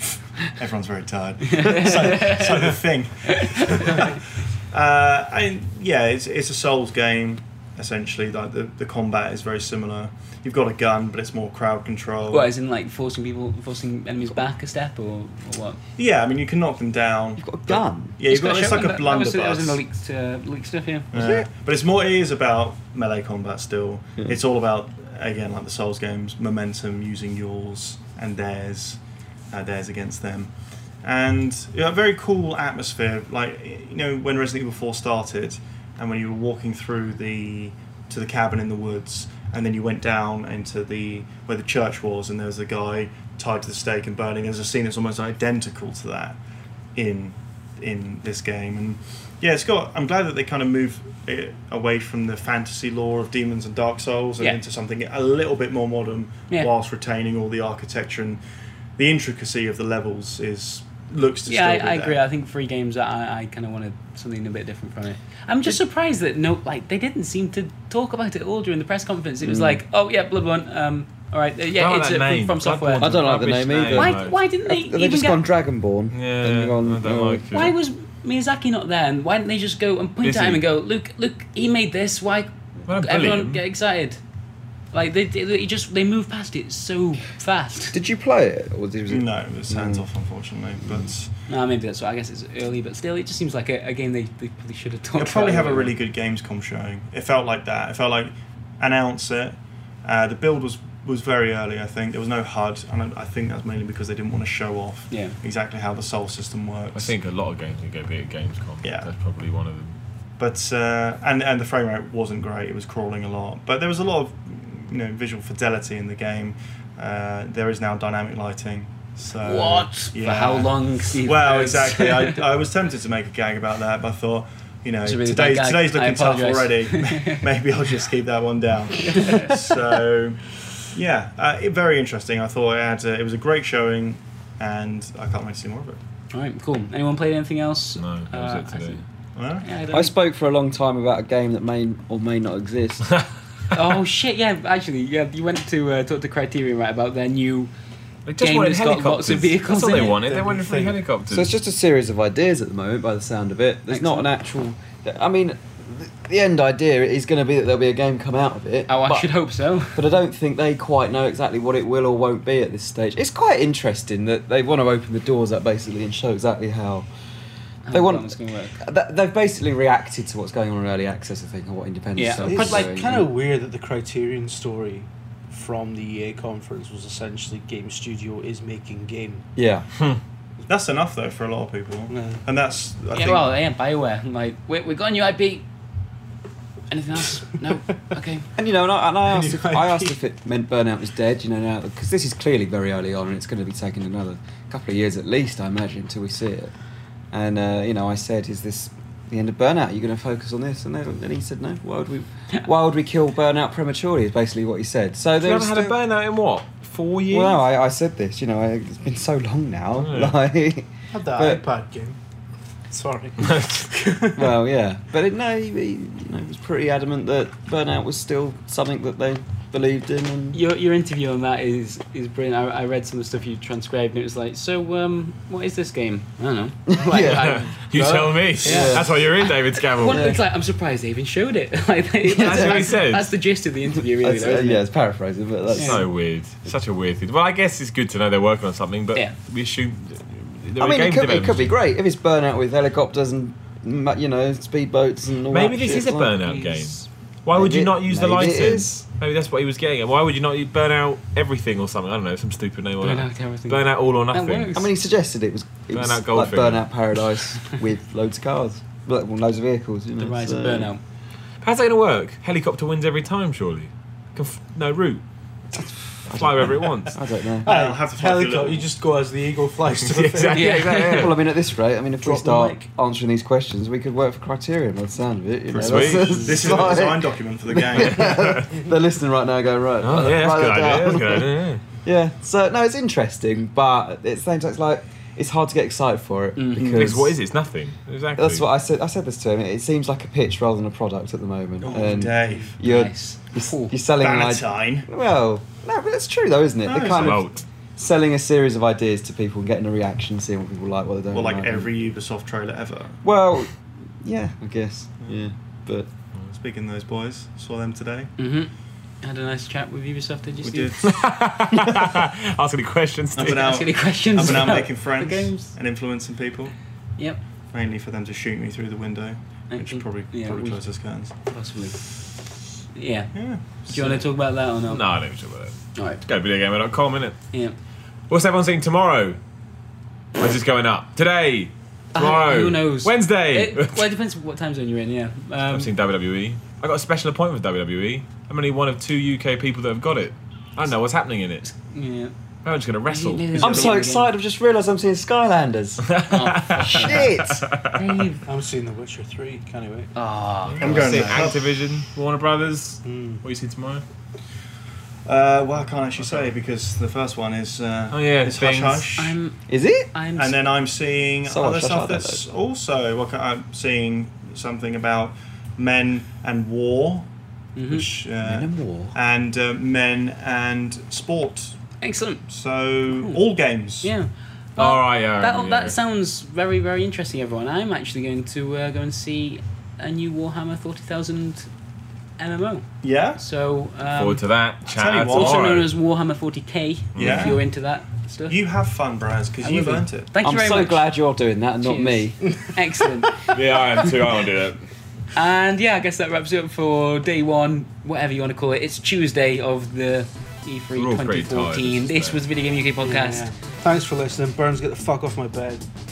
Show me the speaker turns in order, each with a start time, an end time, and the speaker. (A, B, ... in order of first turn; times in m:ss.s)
0:00.6-0:12.5 A
0:01.5-0:02.6 B
0:03.4-0:04.1 B
0:12.3-0:15.8 B
0:16.0-0:19.8 A
0:17.4-0:18.2 C
0:18.3-0:21.1 B
0:21.1-0:29.0 A
0:21.1-0:21.5 C
0:29.5-0:46.4 A
0:47.0-0:58.4 A
0:59.0-1:02.2 A
1:01.5-1:13.1 B
1:09.4-1:09.8 C
1:11.7-1:14.4 D
1:13.0-1:17.7 C
1:13.9-1:15.5 B
1:16.1-1:17.8 D
1:17.5-1:24.2 B
1:20.2-1:20.6 D
1:22.9-1:23.6 D
1:24.9-1:28.0 B
1:27.9-1:30.1 C
1:29.1-1:31.3 A
1:30.8-1:31.1 C
1:31.5-1:35.9 B
1:35.2-1:47.1 A
1:45.1-1:45.4 B
1:46.9-1:50.0 D
1:48.8-1:49.1 A
1:50.4-2:16.0 A
1:59.4-2:02.4 B
2:05.0-2:07.5 B
2:09.1-2:09.5 B
2:16.3-2:19.0 B
2:18.0-2:19.0 D
2:19.4-2:19.7 A
2:19.6-2:20.1 B
2:19.9-2:23.1 C
2:23.7-2:27.7 B
2:28.3-2:31.5 D
2:28.4-2:30.2 B
2:30.1-2:31.0 E
2:31.3-2:39.3 C
2:33.9-2:34.3 B
2:38.9-2:40.1 B
2:40.0-2:47.1 C
2:47.9-2:48.8 B
2:47.9-2:53.3 C
2:52.2-2:53.0 B
2:52.4-2:59.5 E
2:59.6-2:59.9 C
3:00.7-3:03.5 A
3:02.1-3:02.4 E
3:03.1-3:05.6 B
3:06.9-3:08.5 B
3:08.6-3:16.7 C
3:09.3-3:10.2 E
3:17.3-3:26.0 C
3:25.4-3:27.6 D
3:27.3-3:31.6 C
3:30.0-3:30.4 D
3:31.1-3:32.2 E
3:32.9-3:34.5 E
3:33.4-3:33.8 D
3:34.4-3:40.6 C
3:40.5-3:54.8 B
3:46.9-3:48.0 C
3:47.2-3:50.3 D
3:48.6-3:49.2 C
3:50.1-3:50.4 C
3:52.3-3:52.9 C
3:52.4-3:53.3 D
3:54.0-3:56.1 C
3:55.8-3:56.0 B
3:55.8-4:01.7 D
4:00.8-4:06.3 C
4:05.5-4:14.7 D
4:06.4-4:07.0 B
4:07.6-4:09.0 C
4:13.0-4:14.9 B
4:14.7-4:20.9 C
4:15.9-4:17.0 D
4:20.2-4:21.0 B
4:21.6-4:25.2 D
4:25.7-4:27.2 D
4:25.8-4:27.7 C
4:27.6-4:30.8 E
4:27.6-4:28.9 A
4:30.0-4:31.4 D
4:30.5-4:31.3 B
4:31.0-4:41.5 C
4:32.2-4:32.9 E
4:35.7-4:38.4 A
4:35.8-4:36.8 D
4:38.0-4:38.7 D
4:40.0-4:41.8 D
4:42.0-4:47.4 C
4:46.6-4:47.2 B
4:46.9-4:48.7 D
4:48.4-5:01.9 C
4:51.8-4:52.7 A
4:52.4-4:52.7 E
4:52.8-4:54.0 B
4:54.2-4:55.1 A
4:56.9-4:57.4 A
4:57.0-4:57.6 D
5:01.3-5:03.2 A
5:03.2-5:06.1 C
5:06.5-5:08.3 A
5:08.4-5:08.7 B
5:09.2-5:11.0 B
5:10.6-5:11.2 A
5:11.0-5:13.7 D
5:13.4-5:16.7 A
5:13.4-5:15.7 B
5:17.7-5:21.4 A
5:19.7-5:20.8 B
5:21.4-5:22.0 B
5:23.0-5:25.0 B
5:23.3-5:24.2 A
5:24.9-5:27.4 D
5:26.0-5:26.2 B
5:28.3-5:29.4 D
5:30.4-5:34.1 D
5:32.2-5:35.9 B
5:35.7-5:41.7 D
5:41.6-5:42.3 B
5:42.6-5:44.0 D
5:43.1-5:44.3 B
5:43.6-5:47.7 C
5:46.0-5:48.0 D
5:46.3-5:48.4 B
5:48.5-5:50.1 E
5:50.2-5:51.2 B
5:50.7-5:54.0 D
5:50.8-5:51.6 A
5:53.0-5:53.4 E
5:55.3-5:59.4 A
5:56.2-5:56.5 D
5:58.1-5:59.1 D
5:59.2-5:59.6 B
5:59.7-6:00.1 C
6:00.1-6:00.6 B
6:00.4-6:07.3 A
6:01.5-6:02.4 C
6:07.8-6:08.1 B
6:07.9-6:11.8 A
6:08.4-6:09.1 C
6:12.0-6:12.4 B
6:12.5-6:14.1 A
6:13.1-6:13.4 B
6:14.0-6:21.7 B
6:14.8-6:16.0 D
6:22.4-6:24.4 B
6:23.0-6:23.4 A
6:24.1-6:25.9 D
6:25.0-6:25.7 A
6:25.3-6:28.6 B
6:27.2-6:27.6 D
6:27.2-6:27.6 A
6:28.5-6:30.3 A
6:29.6-6:31.1 B
6:30.4-6:32.4 C
6:31.8-6:33.5 B
6:33.5-6:34.8 D
6:35.3-6:43.5 B
6:41.0-6:42.4 D
6:43.0-6:45.8 E